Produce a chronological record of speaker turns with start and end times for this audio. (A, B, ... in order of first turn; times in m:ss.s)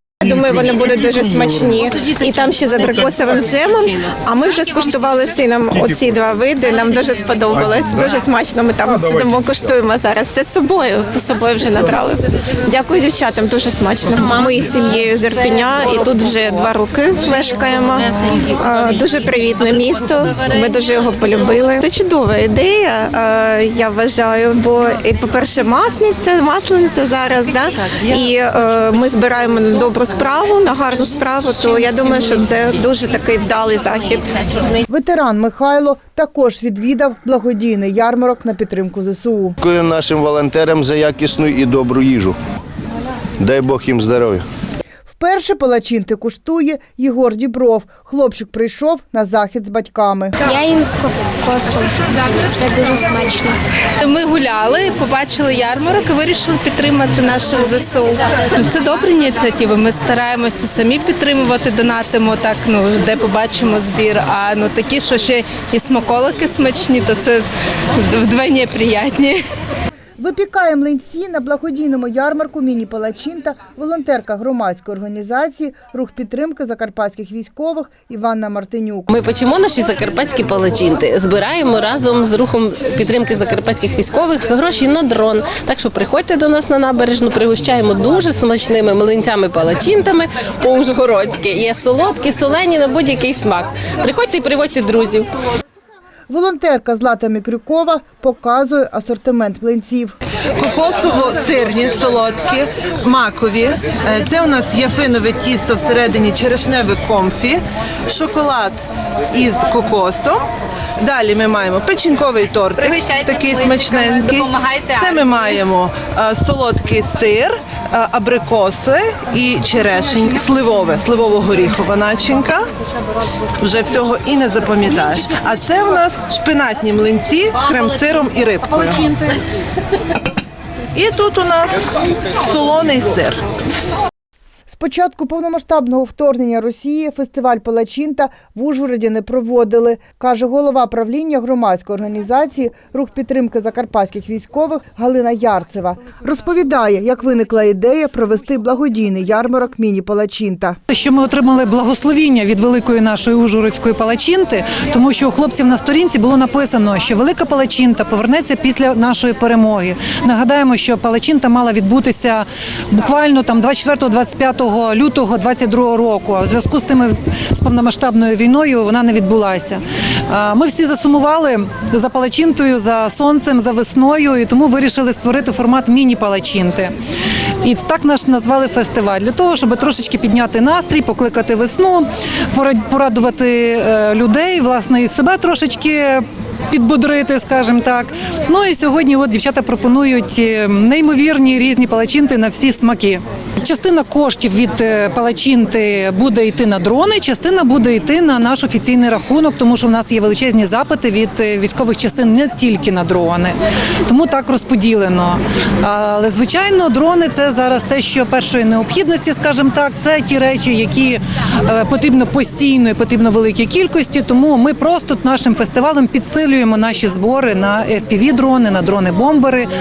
0:00.2-0:34.4 A
0:34.9-0:39.6 B
0:39.6-0:42.4 C
0:43.4-0:44.4 C
0:45.2-0:50.4 B
0:50.4-0:53.6 D
0:54.0-1:07.4 E
1:08.0-1:09.4 E
1:10.2-1:19.1 B
1:19.1-1:35.3 F
1:36.3-1:40.2 B
1:40.6-1:48.8 G
1:49.3-1:50.4 G
1:51.0-2:02.6 G
2:03.6-2:09.2 G
2:10.9-2:11.8 G
2:12.4-2:13.4 G
2:14.7-2:30.8 B
2:30.9-2:56.9 H
2:57.6-3:23.5 H
3:24.0-3:39.7 H